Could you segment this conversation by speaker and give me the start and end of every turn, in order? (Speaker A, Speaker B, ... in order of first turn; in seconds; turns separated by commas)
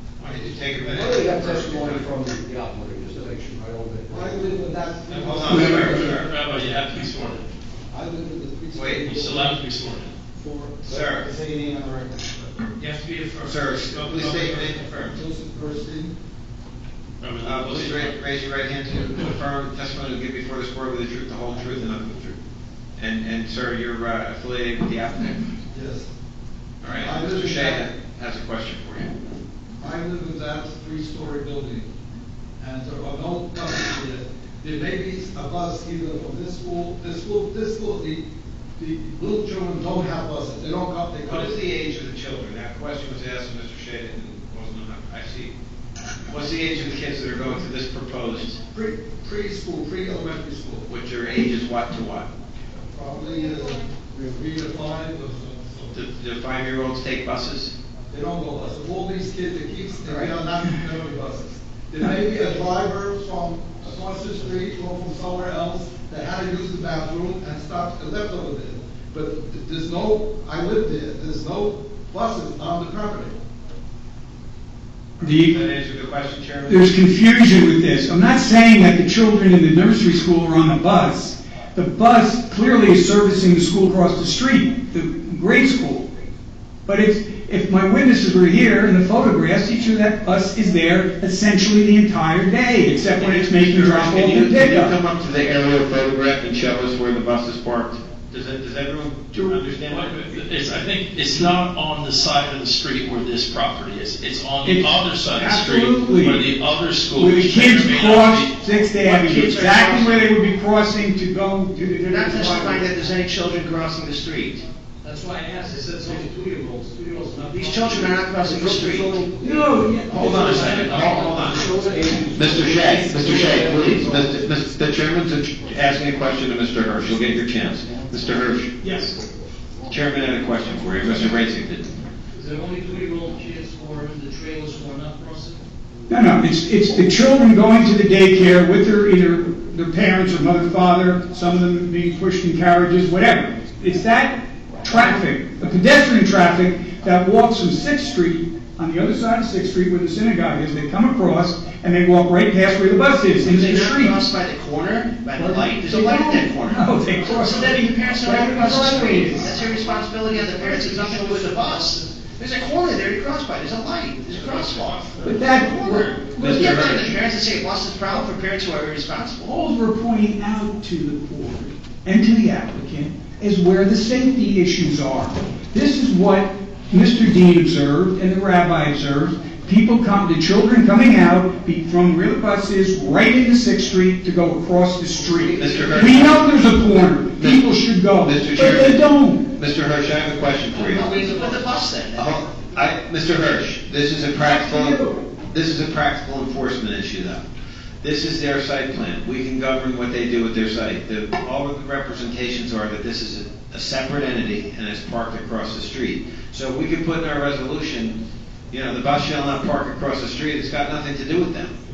Speaker A: 0.2-2.1, Speaker B: 0.8-4.3, Speaker C: 4.1-6.0, Speaker A: 5.1-6.3, Speaker D: 5.5-7.5, Speaker B: 5.8-6.1, Speaker C: 7.9-9.6, Speaker A: 8.7-9.1, Speaker D: 9.0-10.1, Speaker C: 10.6-12.4, Speaker A: 10.8-11.3, Speaker E: 12.8-14.8, Speaker A: 13.4-15.2, Speaker C: 15.1-16.1, Speaker D: 17.2-18.3, Speaker A: 17.4-22.4, Speaker A: 23.0-25.4, Speaker C: 25.7-26.1, Speaker A: 26.8-29.1, Speaker C: 26.9-27.9, Speaker C: 29.8-31.9, Speaker C: 32.6-38.2, Speaker C: 38.8-41.6, Speaker A: 41.2-45.5, Speaker A: 46.3-48.6, Speaker C: 48.7-50.9, Speaker A: 50.9-52.3, Speaker C: 52.9-56.0, Speaker A: 55.9-57.7, Speaker C: 58.1-73.4, Speaker F: 75.2-75.5, Speaker A: 75.2-76.9, Speaker F: 76.7-86.1, Speaker F: 86.9-95.0, Speaker A: 93.1-100.3, Speaker D: 99.9-108.6, Speaker F: 104.6-106.5, Speaker F: 107.1-112.8, Speaker G: 109.0-110.2, Speaker G: 112.0-114.6, Speaker E: 115.0-119.0, Speaker G: 117.5-119.1, Speaker C: 118.7-119.4, Speaker B: 118.9-120.8, Speaker F: 119.5-120.2, Speaker A: 120.1-121.7, Speaker E: 120.2-122.2, Speaker D: 120.4-121.2, Speaker B: 121.4-124.3, Speaker A: 122.3-128.8, Speaker F: 128.8-129.1, Speaker A: 129.9-131.9, Speaker E: 132.3-135.6, Speaker F: 136.1-154.2, Speaker G: 153.5-169.5, Speaker F: 155.4-159.5, Speaker E: 158.6-162.3, Speaker D: 164.6-165.2, Speaker E: 165.2-165.5, Speaker F: 165.2-167.1, Speaker A: 166.4-166.9, Speaker F: 169.4-189.5, Speaker B: 185.4-186.2, Speaker A: 185.6-186.6, Speaker A: 188.2-191.1, Speaker E: 190.8-191.5, Speaker G: 190.8-192.2, Speaker A: 192.2-197.4, Speaker F: 194.4-195.2, Speaker A: 198.0-208.2, Speaker A: 208.7-211.7